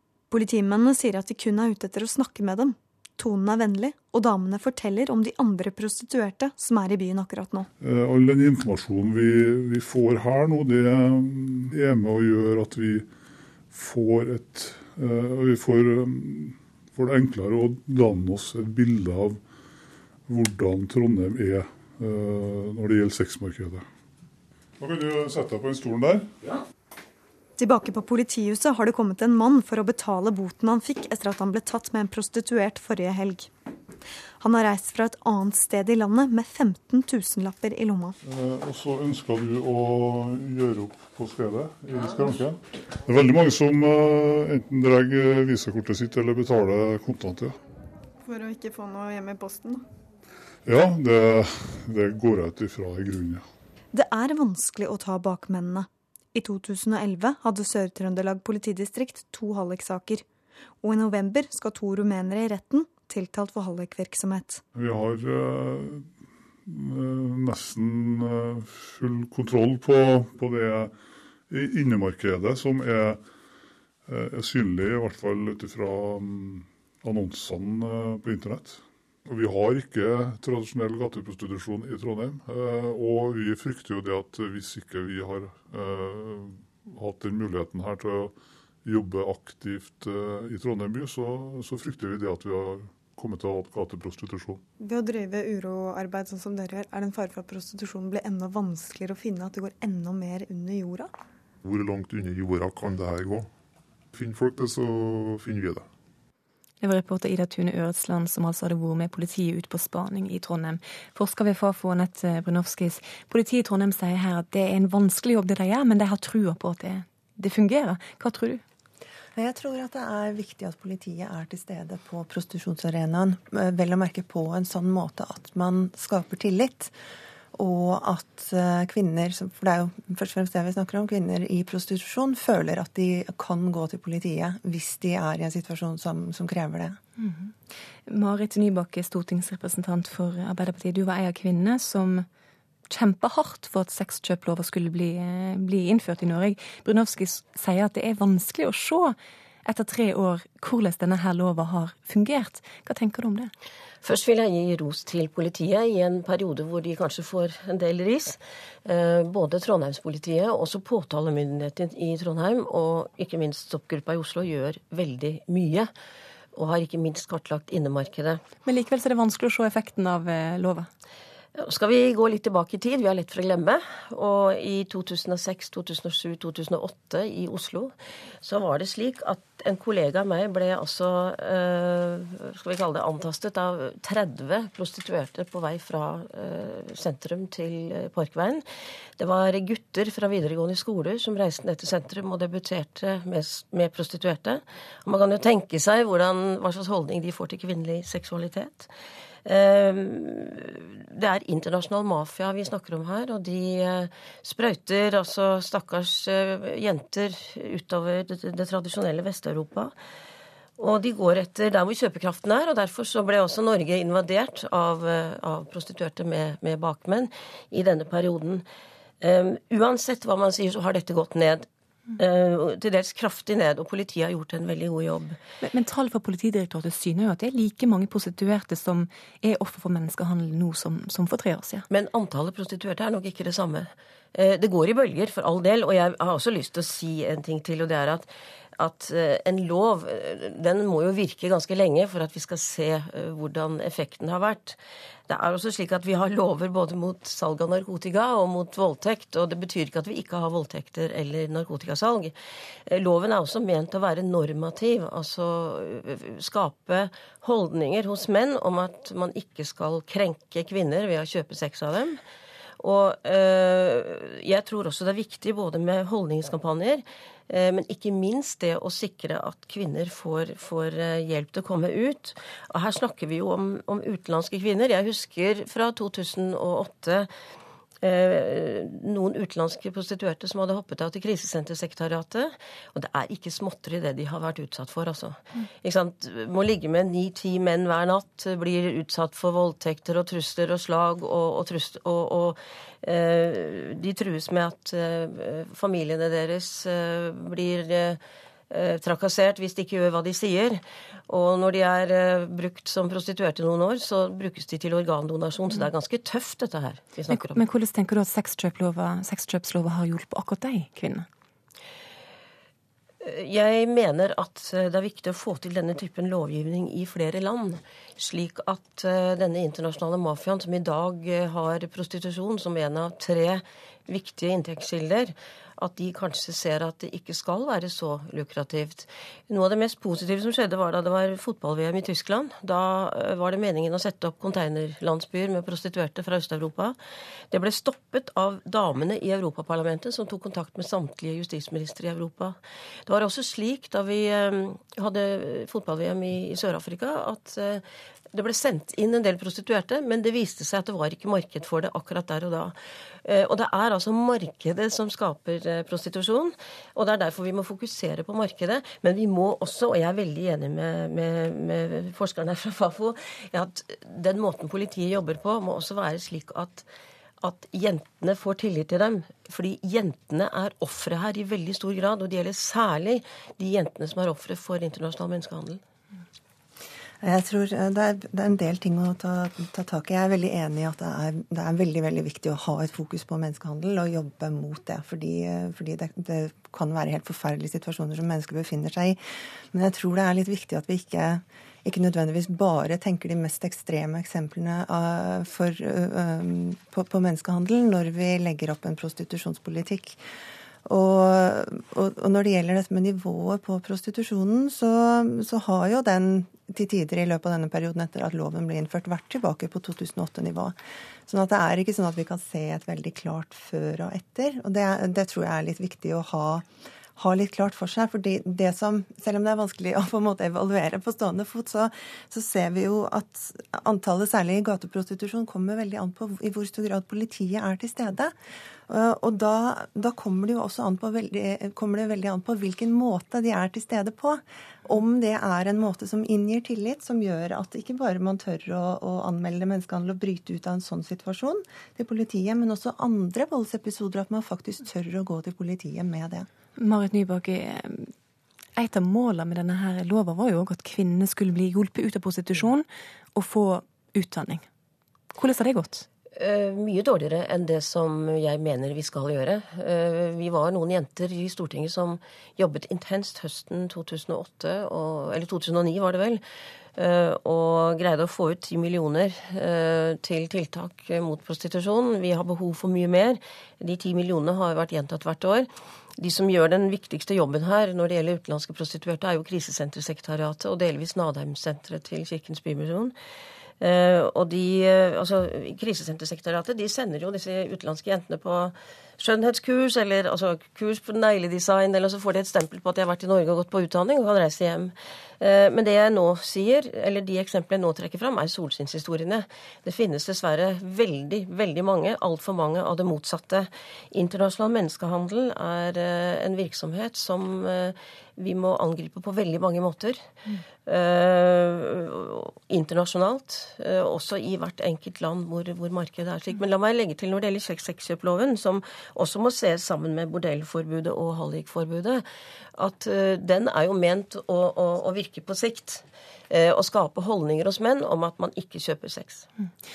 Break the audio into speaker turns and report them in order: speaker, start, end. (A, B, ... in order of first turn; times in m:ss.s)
0:00.3-0:07.7 A
0:07.8-0:13.1 B
0:13.7-0:19.4 B
0:20.3-0:23.8 B
0:24.8-0:26.3 B
0:27.6-0:33.5 A
0:34.4-0:38.2 A
0:38.2-0:47.6 B
0:48.2-0:49.8 A
0:50.6-0:53.4 B
0:53.9-1:00.2 A
1:00.8-1:04.6 A
1:04.7-1:06.1 B
1:06.6-1:10.9 B
1:11.5-1:13.2 B
1:14.1-1:28.3 B
1:28.8-1:34.6 B
1:34.8-1:41.1 A
1:41.6-1:43.5 C
1:44.1-1:45.8 C
1:46.8-1:58.6 D
1:59.4-2:06.9 E
2:07.5-2:17.0 E
2:17.2-2:17.5 D
2:18.1-2:22.2 D
2:22.9-2:33.5 D
2:34.0-2:45.9 F
2:46.5-2:48.4 F
2:48.6-2:50.9 D
2:51.6-3:08.6 F
3:09.2-3:18.9 F
3:19.4-3:29.9 F
3:30.8-3:38.6 F
3:39.2-3:45.4 F
3:45.6-3:51.8 D
3:51.9-4:12.3 F
4:12.9-4:22.2 F
4:22.8-4:37.3 F
4:38.0-5:07.6 F
5:07.3-5:11.2 D
5:13.2-5:37.0 F
5:37.5-6:06.9 F
6:07.4-6:15.8 F
6:17.2-6:29.2 E
6:29.7-6:40.2 E
6:40.8-6:50.8 E
6:51.3-6:56.6 E
6:57.2-7:08.3 E
7:08.9-7:26.5 E
7:26.8-7:28.1 D
7:28.8-7:34.6 D
7:35.3-7:36.0 D
7:36.4-7:46.4 F
7:47.0-8:03.1 F
8:03.8-8:30.2 F
8:30.8-8:42.2 F
8:42.8-8:49.5 F